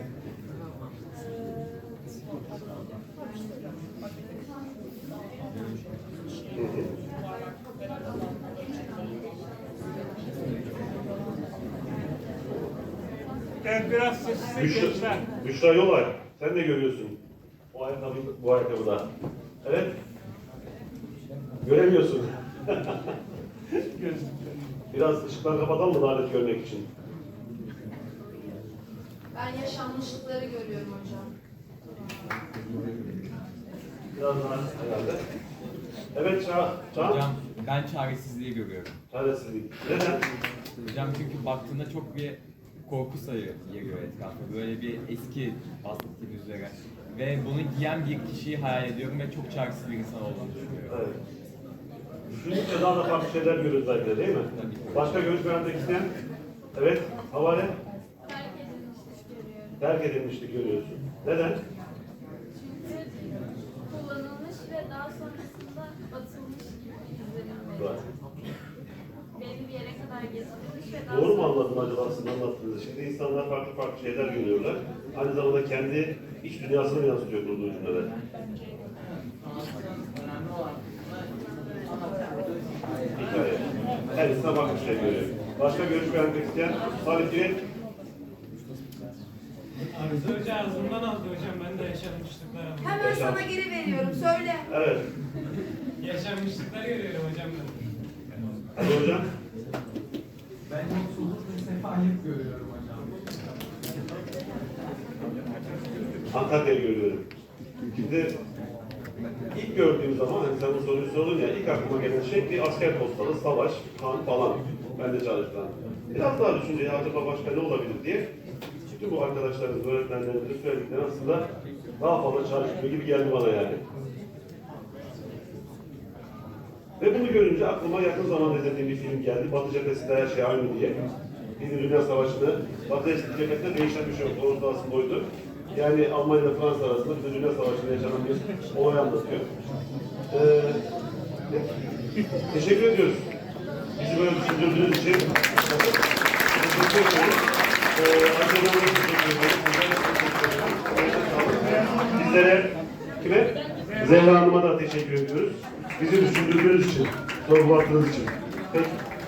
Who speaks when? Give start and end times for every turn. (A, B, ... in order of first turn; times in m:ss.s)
0:01.3-0:01.6 A
0:06.5-0:06.9 B
0:08.6-0:08.9 A
0:13.6-0:15.2 C
0:14.5-0:17.2 B
0:17.7-0:19.1 B
0:19.6-0:20.0 B
0:21.6-0:23.1 B
0:24.9-0:26.9 B
0:29.3-0:31.3 A
0:34.2-0:35.2 B
0:36.1-0:37.2 B
0:37.0-0:38.9 D
0:39.1-0:40.2 B
0:40.8-0:51.0 D
0:50.9-0:51.2 B
0:52.3-0:56.1 B
0:54.6-0:55.2 D
0:56.8-0:57.8 B
0:58.2-0:59.8 A
0:59.8-1:01.6 B
1:02.6-1:08.0 A
1:09.4-1:11.6 A
1:11.1-1:18.1 B
1:23.2-1:27.6 B
1:29.9-1:33.0 C
1:32.8-1:34.7 A
1:33.0-1:33.4 B
1:34.7-1:35.1 B
1:36.0-1:37.9 C
1:38.8-1:39.3 B
1:40.7-1:43.5 D
1:46.3-1:47.3 B
1:47.9-1:48.4 B
1:49.5-1:58.3 B
1:58.9-2:03.8 B
2:07.0-2:11.0 B
2:11.6-2:19.5 B
2:20.3-2:20.8 B
2:22.5-2:23.3 B
2:24.0-2:26.0 B
2:26.6-2:27.4 B
2:27.9-2:39.0 B